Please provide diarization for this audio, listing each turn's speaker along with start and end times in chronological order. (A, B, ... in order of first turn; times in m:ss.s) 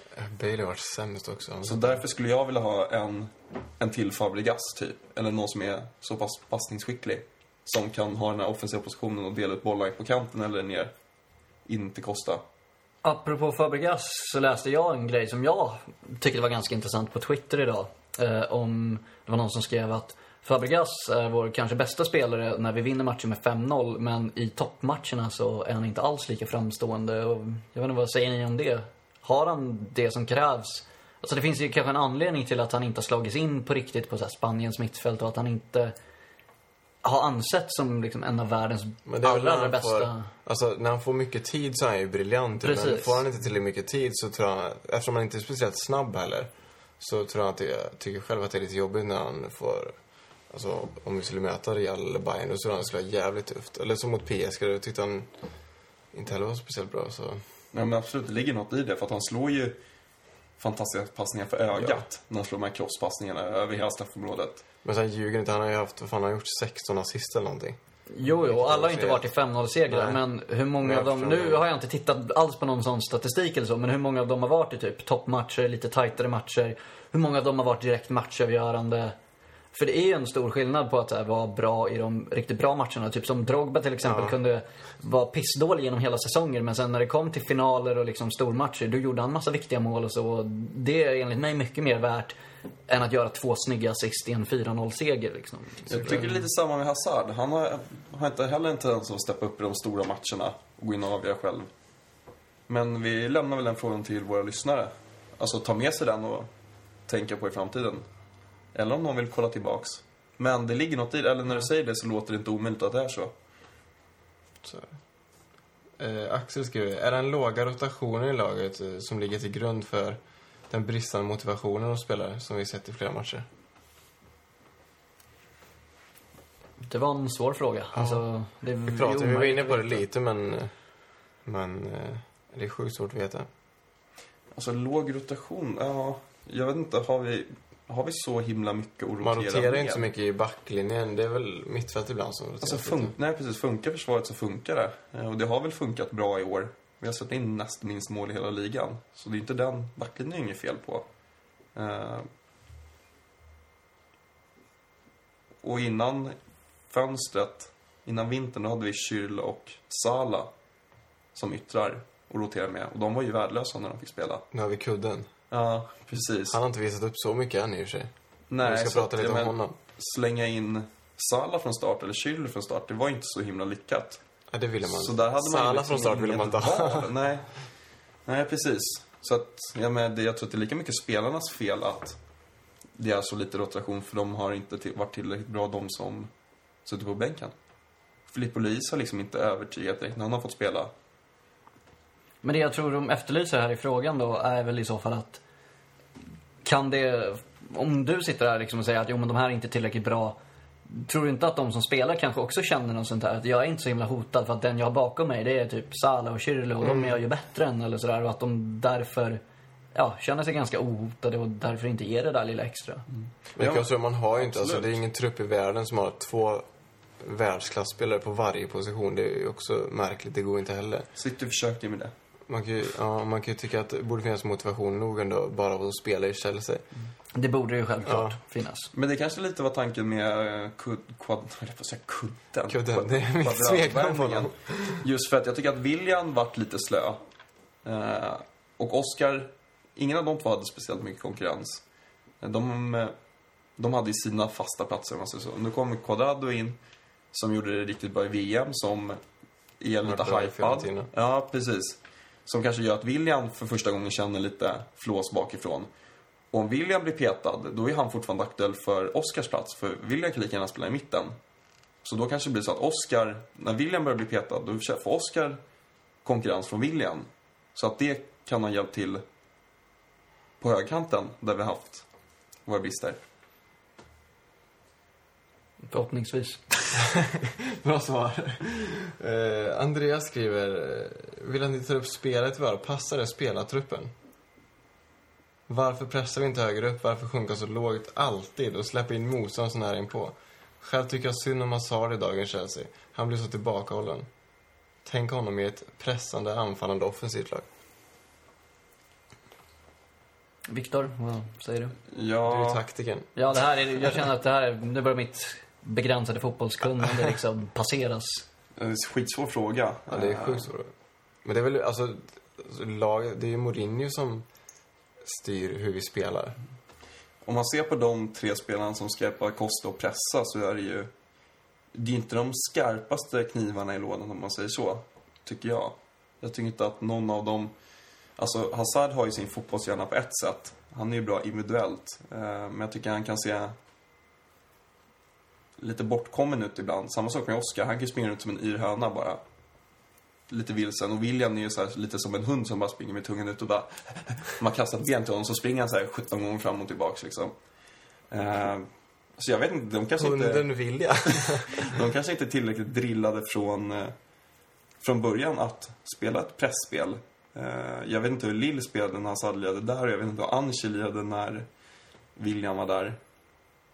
0:00.1-0:02.0 A
0:01.6-0:10.9 B
0:11.6-0:12.4 B
0:13.0-0:35.9 C
0:37.0-0:40.3 C
0:39.1-0:49.9 A
0:42.6-0:43.2 C
0:50.5-0:55.3 A
0:56.1-0:57.4 A
0:57.7-0:59.8 B
1:00.6-1:04.6 B
1:01.8-1:02.0 A
1:04.8-1:09.3 A
1:08.1-1:19.1 C
1:09.9-1:10.2 A
1:10.8-1:11.6 A
1:19.7-1:32.3 C
1:24.0-1:24.3 A
1:32.9-1:36.3 C
1:35.8-1:41.7 B
1:42.7-1:46.5 B
1:47.1-1:48.1 B
1:48.7-1:53.3 B
1:54.6-1:54.9 A
1:56.0-2:03.5 A
2:06.9-2:10.0 C
2:07.9-2:08.2 A
2:08.8-2:10.7 A
2:11.4-2:13.5 A
2:14.5-2:20.1 B
2:19.2-2:23.1 A
2:22.6-2:31.0 B
2:31.7-2:32.3 B
2:35.6-2:36.4 B
2:36.9-2:40.5 B
2:41.3-2:44.4 B
2:44.5-2:45.3 A
2:45.5-2:46.6 B
2:46.5-2:48.1 A
2:48.5-2:54.2 B
2:48.6-2:49.8 A
2:54.5-2:57.1 A
2:54.8-2:57.6 B
2:58.2-3:02.2 B
3:03.0-3:06.3 B
3:06.8-3:07.5 B
3:08.3-3:10.9 B
3:12.4-3:15.4 C
3:16.6-3:29.4 C
3:26.8-3:27.2 A
3:29.9-3:33.0 C
3:33.5-3:35.0 B
3:33.6-3:36.6 A
3:37.2-3:41.1 A
3:41.1-3:42.1 B
3:42.5-3:46.8 A
3:47.3-3:48.9 C
3:48.0-3:48.4 A
3:48.9-3:57.2 B
3:52.7-3:55.0 A
3:57.8-4:01.8 B
4:02.4-4:03.1 B
4:03.8-4:06.8 B
4:07.3-4:09.2 B
4:09.8-4:15.9 B
4:10.0-4:11.1 A
4:16.5-4:21.4 B
4:22.0-4:25.6 B
4:26.2-4:29.2 B
4:30.6-4:32.1 B
4:32.6-4:33.2 B
4:35.8-4:36.9 C
4:36.9-4:44.1 A
4:45.7-4:54.3 A
4:55.0-4:57.6 A
5:00.7-5:02.0 C
5:02.1-5:02.8 B
5:02.4-5:03.3 A
5:03.4-5:08.4 C
5:08.8-5:10.7 B
5:10.1-5:10.9 A
5:11.4-5:14.4 A
5:15.2-5:16.6 A
5:17.4-5:21.1 B
5:21.9-5:27.7 B
5:28.4-5:33.7 B
5:35.8-5:39.4 B
5:40.5-5:47.5 B
5:48.3-5:54.1 B
5:50.2-5:52.0 A
5:55.0-6:01.7 B
6:02.4-6:03.2 B